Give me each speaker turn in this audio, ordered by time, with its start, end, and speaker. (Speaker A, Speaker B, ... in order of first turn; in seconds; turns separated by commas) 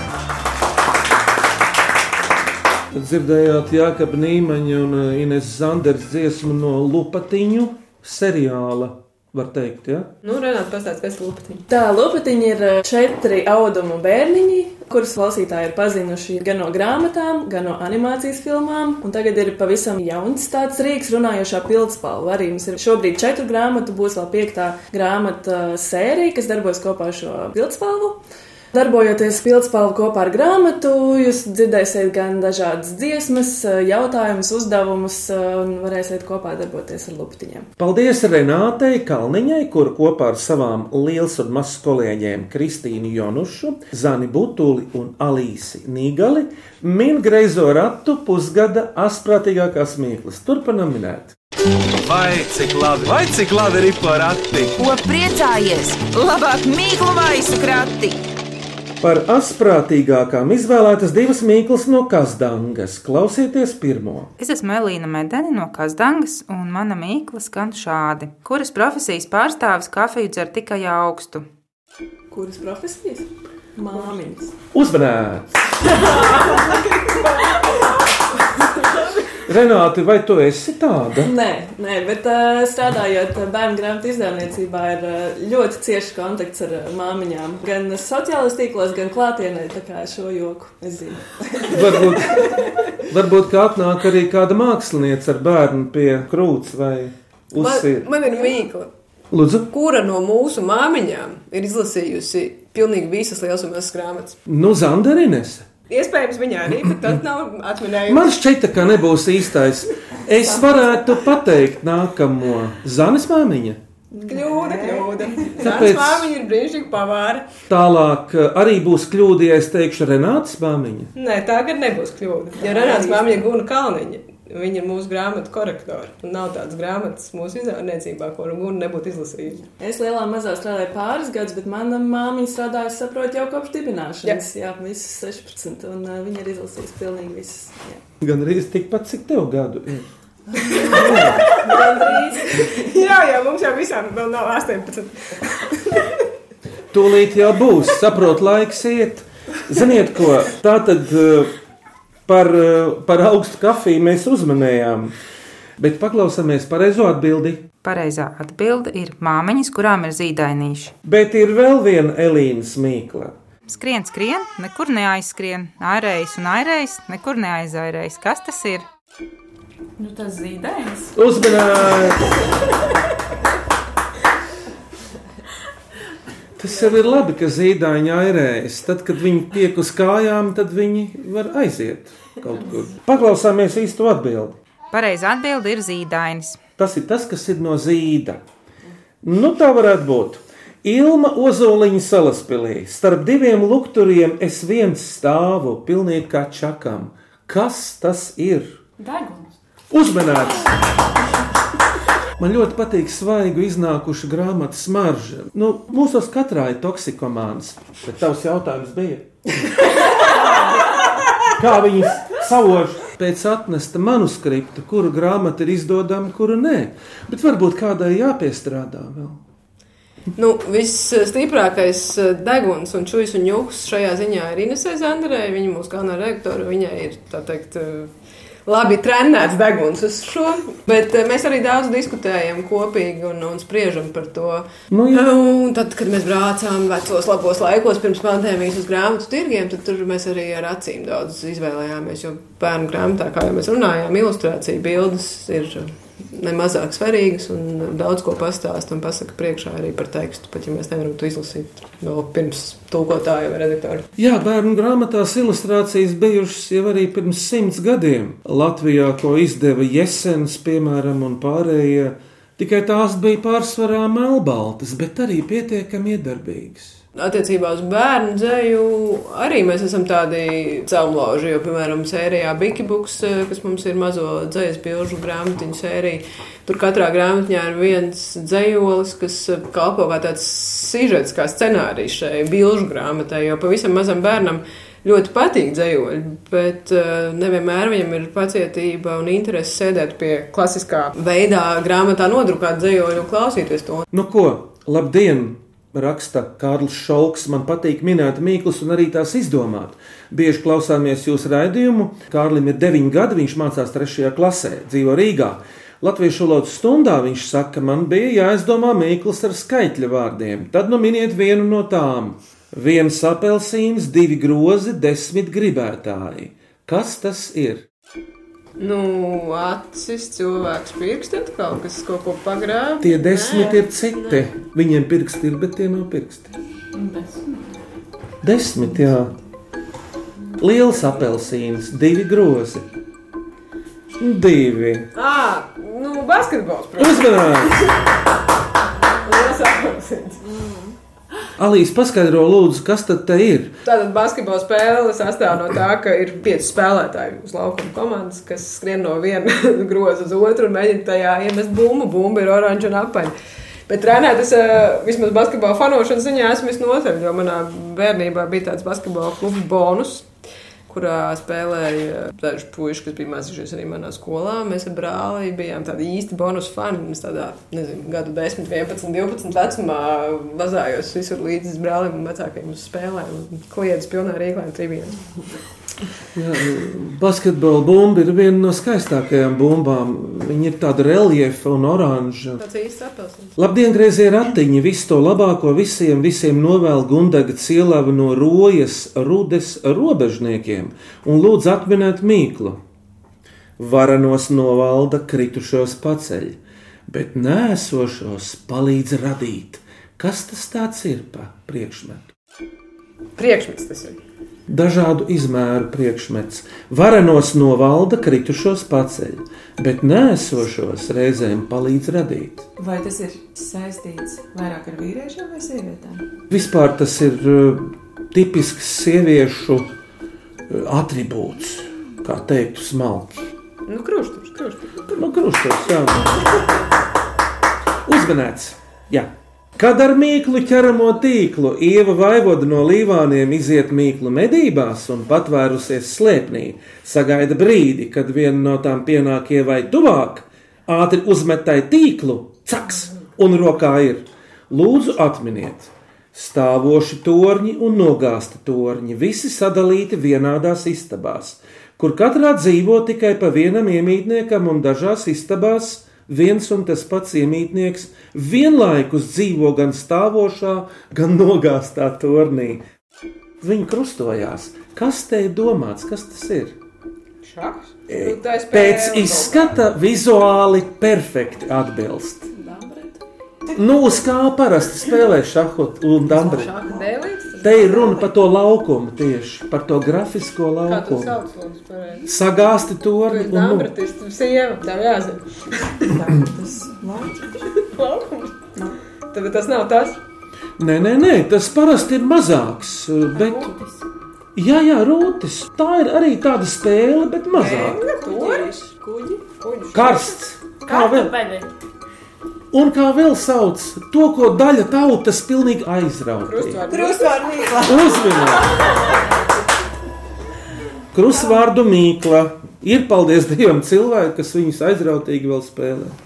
Speaker A: 2.9-10.1, Speaker B: 10.2-11.7, Speaker C: 11.7-37.7, Speaker A: 37.8-51.4, Speaker D: 52.0-54.7, Speaker E: 54.8-58.2, Speaker A: 59.0-64.3, Speaker E: 64.4-71.5, Speaker C: 72.3-74.5, Speaker A: 74.7-75.5, Speaker C: 75.9-77.9, Speaker A: 79.5-81.3, Speaker C: 81.2-92.5, Speaker A: 91.7-92.5, Speaker A: 93.1-98.2, Speaker B: 97.6-98.9, Speaker A: 99.3-99.7, Speaker B: 99.7-104.4, Speaker A: 104.5-105.7, Speaker B: 105.9-108.3, Speaker A: 108.1-113.8, Speaker F: 114.2-115.6, Speaker B: 114.2-117.5, Speaker A: 115.6-116.3, Speaker A: 117.7-121.1, Speaker B: 121.2-129.7, Speaker C: 122.7-123.4, Speaker C: 129.7-138.0, Speaker A: 138.2-140.1, Speaker B: 140.6-146.1, Speaker C: 140.7-142.9, Speaker A: 140.8-141.5, Speaker A: 146.9-151.5, Speaker A: 152.3-155.2, Speaker A: 155.8-157.7, Speaker E: 157.8-160.9, Speaker A: 161.0-163.3, Speaker E: 163.7-168.8, Speaker G: 170.0-171.2, Speaker A: 171.2-172.4, Speaker A: 176.6-184.6, Speaker E: 184.9-186.6, Speaker A: 186.8-188.4, Speaker A: 189.2-198.8, Speaker G: 199.0-199.5, Speaker A: 199.9-200.7, Speaker A: 202.4-209.7, Speaker A: 211.5-219.4, Speaker B: 220.4-228.1, Speaker B: 228.7-254.1, Speaker A: 234.9-235.3, Speaker A: 254.2-267.0, Speaker B: 267.1-294.1, Speaker A: 294.1-317.9, Speaker B: 318.8-324.4, Speaker A: 323.0-326.5, Speaker G: 326.9-327.6, Speaker A: 328.4-329.4, Speaker A: 330.6-332.9, Speaker A: 334.2-335.1, Speaker B: 335.1-337.9, Speaker A: 337.0-337.9, Speaker B: 339.2-340.4, Speaker A: 341.6-343.8, Speaker B: 343.9-353.3, Speaker B: 353.9-360.3, Speaker B: 360.9-375.2, Speaker A: 376.4-382.6, Speaker B: 382.6-383.6, Speaker A: 383.6-392.8, Speaker A: 393.8-402.3, Speaker B: 403.4-404.2, Speaker A: 404.7-412.7, Speaker F: 412.8-416.2, Speaker A: 416.5-419.9, Speaker A: 420.7-423.5, Speaker B: 423.9-425.1, Speaker A: 425.1-426.5, Speaker A: 428.1-462.8, Speaker A: 463.6-466.8, Speaker B: 467.5-469.8, Speaker A: 468.1-472.5, Speaker A: 473.7-476.8, Speaker F: 476.3-477.1, Speaker B: 476.4-478.3, Speaker A: 477.6-481.4, Speaker B: 480.9-482.3, Speaker A: 482.3-483.9, Speaker B: 483.3-486.1, Speaker F: 486.1-487.6, Speaker B: 487.8-488.7, Speaker B: 489.3-490.2, Speaker A: 490.8-493.7, Speaker G: 493.3-494.0, Speaker A: 494.6-498.0, Speaker B: 497.5-498.7, Speaker C: 498.1-499.4, Speaker F: 498.1-498.8, Speaker B: 499.6-500.4, Speaker A: 499.9-501.3, Speaker G: 500.9-501.7, Speaker A: 502.7-506.8, Speaker B: 506.4-507.9, Speaker F: 506.8-508.7, Speaker A: 507.9-508.9, Speaker A: 511.1-516.2